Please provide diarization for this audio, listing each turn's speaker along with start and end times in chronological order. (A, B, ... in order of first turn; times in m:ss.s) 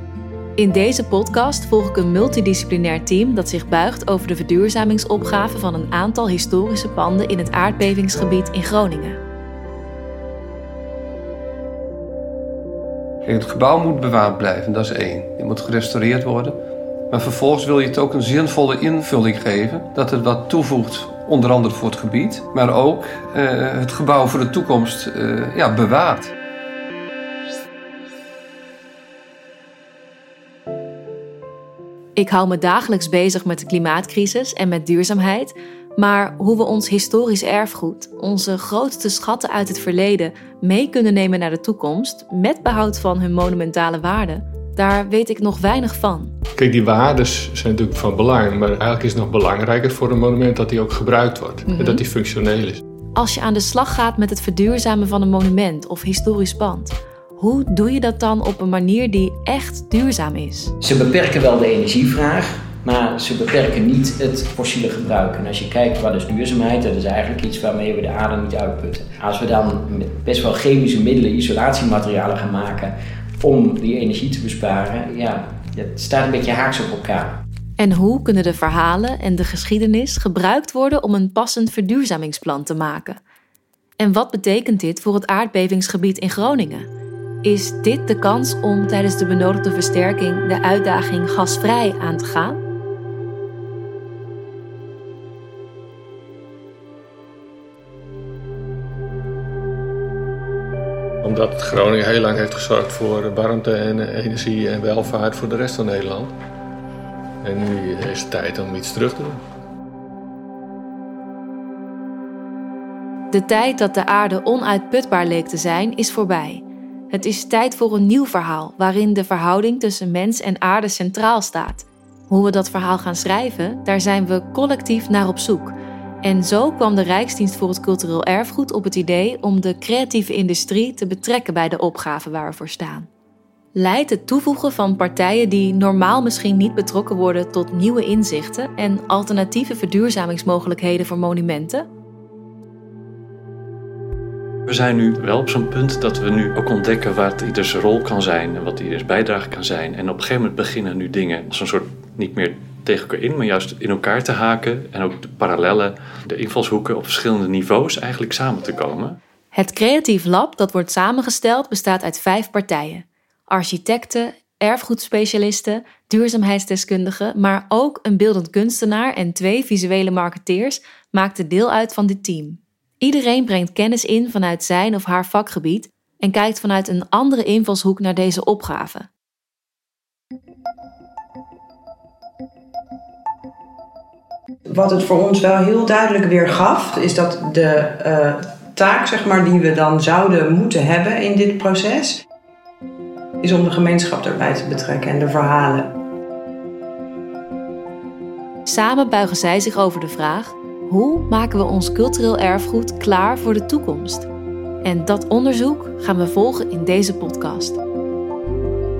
0:00.6-0:09.2 A
0:13.2-0:16.6 B
0:17.1-0:26.3 B
0:32.2-0:46.3 A
0:46.6-0:52.8 C
0:51.8-0:52.0 A
0:53.2-1:00.7 A
1:00.8-1:17.4 D
1:17.8-1:23.2 A
1:24.0-1:26.9 A
1:27.4-1:32.6 A
1:41.2-1:46.3 C
1:47.4-1:49.4 C
1:53.3-2:13.1 A
2:13.8-2:21.8 A
2:24.7-2:39.2 E
2:39.5-2:59.1 A
3:04.7-3:12.1 F
3:13.4-3:15.9 F
3:18.7-3:24.3 A
3:24.8-3:27.8 A